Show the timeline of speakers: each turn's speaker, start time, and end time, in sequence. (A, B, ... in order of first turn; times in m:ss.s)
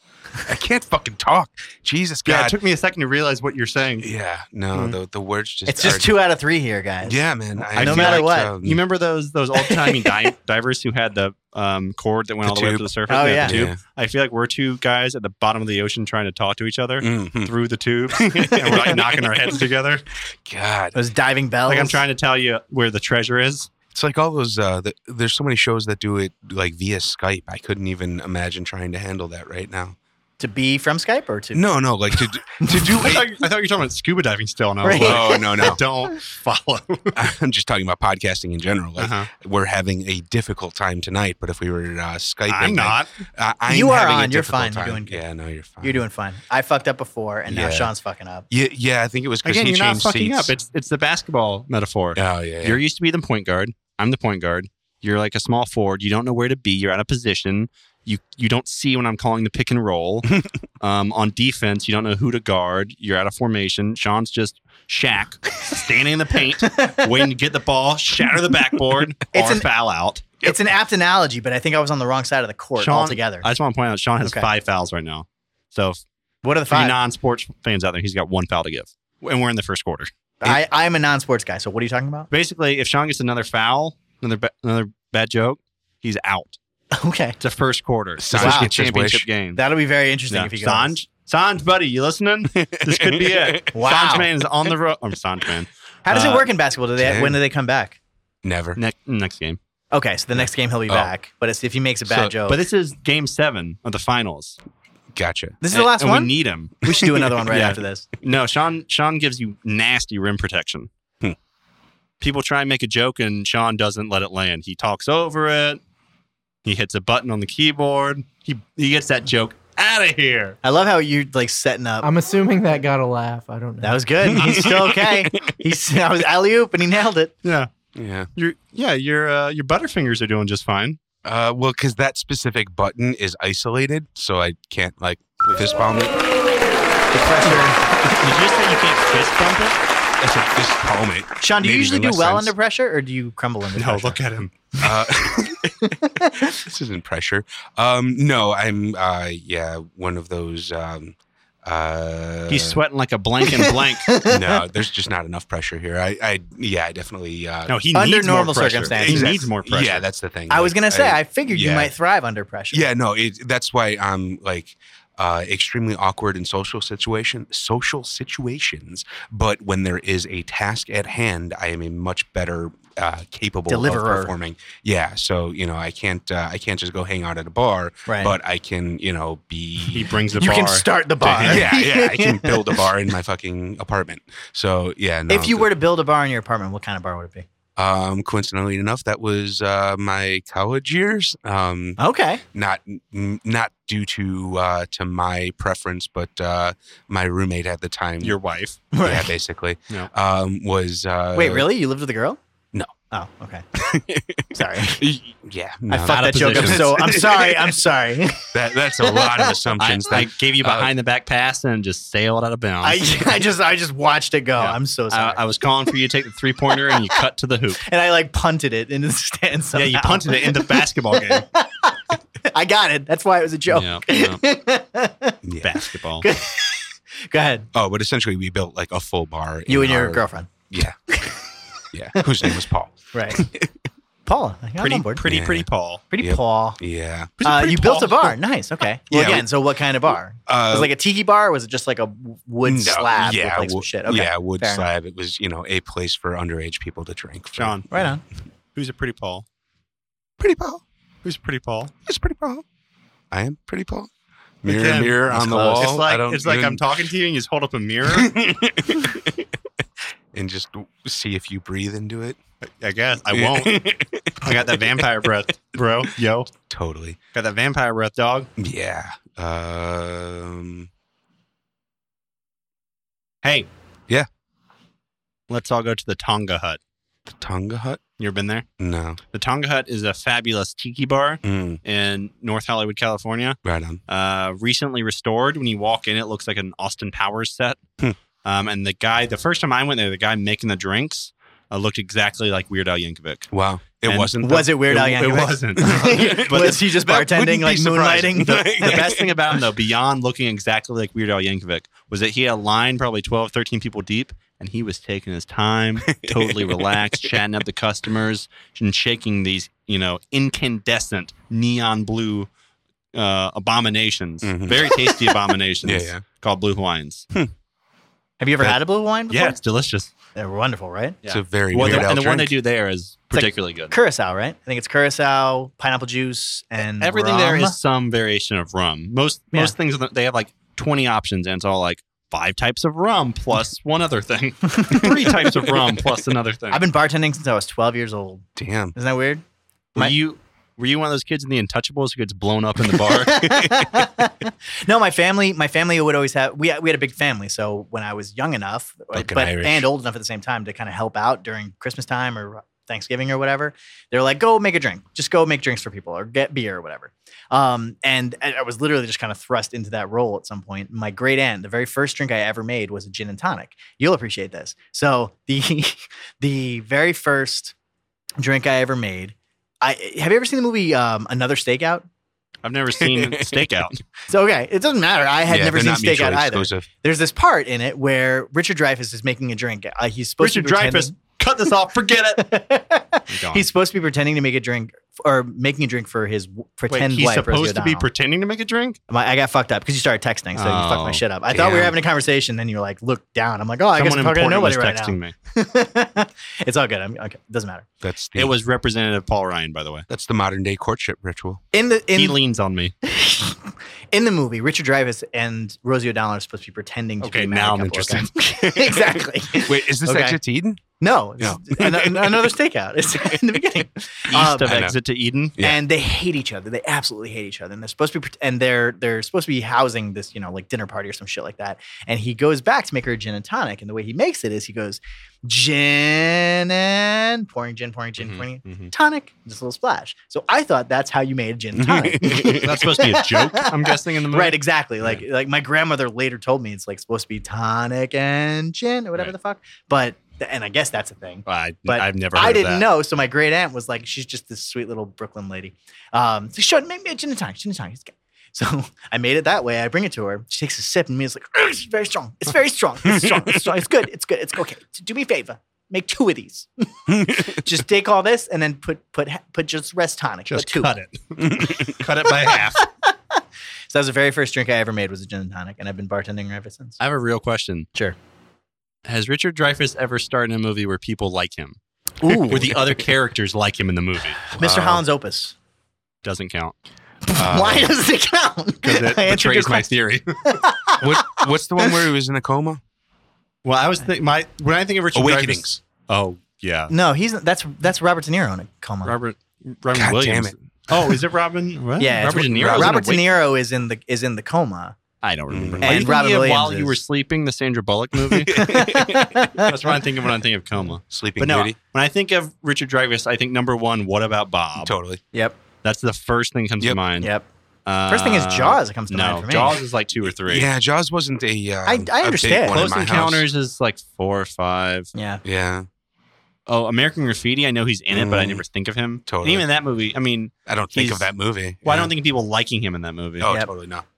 0:00.4-0:02.6 A
0:02.2-0:04.1 B
0:04.0-0:06.2 A
0:05.7-0:08.5 C
0:07.0-0:08.8 A
0:07.6-0:20.0 B
0:09.6-0:10.2 C
0:12.4-0:13.8 A
0:13.1-0:13.6 C
0:17.0-0:17.5 A
0:18.2-0:19.5 A
0:20.4-0:21.0 A
0:20.9-0:22.0 C
0:21.7-0:23.7 B
0:23.9-0:30.0 A
0:30.4-0:33.0 C
0:31.5-0:33.3 A
0:33.0-0:37.2 B
0:34.8-0:35.8 C
0:34.9-0:35.8 A
0:37.1-0:46.0 A
0:39.0-0:39.3 B
0:42.5-0:43.1 B
0:43.7-0:45.2 C
0:45.8-0:48.4 C
0:47.5-0:47.9 A
0:48.5-0:50.5 A
0:49.4-1:10.2 B
0:52.1-0:52.8 A
1:06.6-1:07.1 C
1:09.3-1:09.7 C
1:10.4-1:13.5 C
1:12.8-1:16.0 B
1:14.2-1:14.5 C
1:16.4-1:17.0 C
1:16.7-1:20.1 B
1:20.4-1:22.3 C
1:22.3-1:26.6 B
1:26.9-1:27.4 C
1:27.4-1:29.6 B
1:28.2-1:29.3 A
1:28.3-1:28.7 C
1:29.5-1:31.0 C
1:30.3-1:36.5 B
1:32.6-1:33.7 A
1:33.7-1:34.3 C
1:36.0-1:38.0 C
1:37.0-1:37.4 A
1:38.4-1:38.8 A
1:38.8-1:39.6 B
1:39.9-1:42.6 C
1:42.0-1:42.3 A
1:42.5-1:44.6 B
1:45.1-1:45.6 A
1:45.6-1:48.1 C
1:45.7-1:46.8 B
1:47.5-1:50.9 B
1:52.2-1:55.8 B
1:56.6-2:00.6 B
2:00.6-2:02.1 C
2:02.0-2:04.0 D
2:03.8-2:07.3 C
2:04.2-2:05.6 A
2:07.4-2:07.7 B
2:07.9-2:08.3 A
2:08.4-2:11.0 B
2:11.2-2:16.2 A
2:17.1-2:17.8 C
2:18.2-2:19.8 B
2:20.2-2:22.5 A
2:21.4-2:24.2 C
2:23.8-2:24.5 B
2:24.8-2:26.5 C
2:24.8-2:25.9 A
2:26.5-2:32.8 A
2:32.5-2:34.1 B
2:33.6-2:34.6 C
2:34.2-2:37.7 A
2:37.7-2:40.0 B
2:37.9-2:39.4 C
2:38.9-2:41.9 A
2:40.5-2:42.9 C
2:42.7-3:00.1 A
2:53.7-2:54.3 C
2:58.1-2:58.4 C
2:59.9-3:01.6 B
3:00.4-3:02.8 C
3:01.4-3:05.7 A
3:05.3-3:07.4 C
3:07.8-3:12.0 A
3:12.0-3:12.4 C
3:12.5-3:18.4 A
3:18.2-3:18.8 B
3:18.9-3:19.3 C
3:19.0-3:21.7 A
3:21.3-3:22.4 C
3:23.1-3:23.6 C
3:23.8-3:24.5 A
3:24.5-3:25.0 C
3:25.0-3:27.8 A
3:25.9-3:29.6 C
3:26.1-3:27.0 B
3:28.5-3:30.9 A
3:29.8-3:33.4 B
3:32.8-3:35.4 C
3:34.6-3:37.8 B
3:36.7-3:37.2 C
3:37.8-3:42.0 C
3:39.7-3:41.4 B
3:42.5-3:45.4 C
3:43.7-3:44.4 B
3:45.4-3:45.7 A
3:45.6-3:46.2 B
3:46.2-3:47.7 C
3:47.7-3:51.0 A
3:49.7-3:50.5 C
3:51.1-3:51.4 C
3:51.9-3:53.7 A
3:52.2-3:52.6 C
3:53.1-3:53.4 C
3:54.2-3:55.2 C
3:54.8-3:56.0 B
3:55.2-3:55.7 A
3:56.1-3:56.8 C
3:56.2-3:57.3 A
3:57.4-3:58.4 B
3:57.4-4:04.9 C
3:59.1-3:59.5 A
4:00.5-4:00.9 A
4:02.6-4:07.9 A
4:07.6-4:08.0 B
4:07.9-4:08.2 C
4:08.7-4:09.4 B
4:10.4-4:10.8 A
4:11.2-4:11.9 B
4:12.0-4:12.6 A
4:13.3-4:14.1 A
4:14.6-4:17.0 A
4:14.6-4:18.3 B
4:15.3-4:15.8 C
4:18.1-4:19.4 A
4:20.3-4:22.4 A
4:22.7-4:23.7 B
4:23.3-4:25.0 A
4:24.4-4:26.5 B
4:26.7-4:27.2 A
4:27.3-4:28.5 B
4:28.6-4:30.9 A
4:33.4-4:33.7 B
4:35.5-4:36.8 B
4:37.2-4:38.0 A
4:38.2-4:38.6 B
4:38.8-4:39.2 A
4:39.3-4:47.8 B
4:41.4-4:41.8 A
4:43.6-4:44.0 A
4:48.4-4:53.5 B
4:53.5-4:54.7 A
4:54.0-4:56.8 B
4:54.4-4:59.2 C
4:55.8-4:59.4 A
4:58.6-5:12.5 B
5:06.0-5:07.4 A
5:13.1-5:17.3 B
5:14.4-5:16.2 A
5:18.4-5:19.6 C
5:19.3-5:20.1 B
5:20.4-5:21.2 C
5:21.2-5:23.9 B
5:21.3-5:22.6 A
5:23.3-5:27.8 C
5:26.8-5:36.8 B
5:34.7-5:35.2 C
5:36.7-5:39.4 C
5:38.6-5:38.9 A
5:40.0-5:43.3 B
5:43.1-6:07.7 C
5:43.6-5:43.8 A
5:49.1-5:49.9 A
6:08.4-6:12.0 C
6:12.6-6:14.0 B
6:13.0-6:13.7 A
6:14.3-6:21.1 C
6:15.4-6:16.9 A
6:20.4-6:22.5 B
6:22.3-6:28.1 C
6:23.3-6:23.7 B
6:26.9-6:29.0 B
6:29.1-6:37.8 C
6:30.6-6:31.2 B
6:31.5-6:32.0 A
6:33.9-6:35.3 B
6:38.0-6:38.5 A
6:38.4-6:40.0 B
6:40.1-6:41.6 A
6:41.7-6:42.4 C
6:42.1-6:42.9 B
6:43.0-6:50.4 C
6:47.2-6:48.3 B
6:49.6-6:50.8 A
6:51.0-6:54.8 C
6:51.4-6:52.5 A
6:54.3-6:55.6 B
6:54.6-6:54.9 A
6:55.6-7:40.9 C
7:08.2-7:08.9 B
7:11.8-7:12.8 A
7:12.2-7:15.2 B
7:21.4-7:22.9 B
7:37.1-7:37.6 A
7:40.5-7:42.8 B
7:41.5-7:41.9 A
7:43.9-7:47.0 C
7:47.0-7:47.9 B
7:49.0-7:51.8 B
7:52.2-7:52.9 C
7:52.5-7:54.6 B
7:54.5-7:55.5 C
7:54.6-7:55.0 A
7:56.2-7:56.7 B
7:57.2-7:59.9 C
7:57.3-7:58.0 A
7:58.8-8:00.5 B
8:00.4-8:02.0 C
8:01.0-8:02.8 A
8:03.6-8:06.9 B
8:05.1-8:05.8 A
8:06.9-8:09.1 C
8:09.0-8:13.2 B
8:09.9-8:11.2 A
8:12.0-8:14.9 C
8:12.4-8:13.0 A
8:15.2-8:18.7 B
8:15.5-8:16.1 A
8:15.8-8:17.0 C
8:18.3-8:19.6 A
8:18.5-8:19.7 C
8:19.7-8:24.9 B
8:21.0-8:21.8 A
8:24.8-8:25.2 A
8:25.8-8:27.3 B
8:27.2-8:27.5 C
8:27.8-8:30.7 B
8:28.1-8:29.8 C
8:30.4-8:33.4 A
8:31.8-8:32.8 C
8:32.7-8:35.1 B
8:35.1-8:35.4 C
8:35.4-8:35.9 A
8:36.7-8:41.3 B
8:38.1-8:38.6 A
8:39.3-8:39.6 A
8:40.7-8:42.1 A
8:41.8-8:43.5 B
8:43.4-8:44.0 A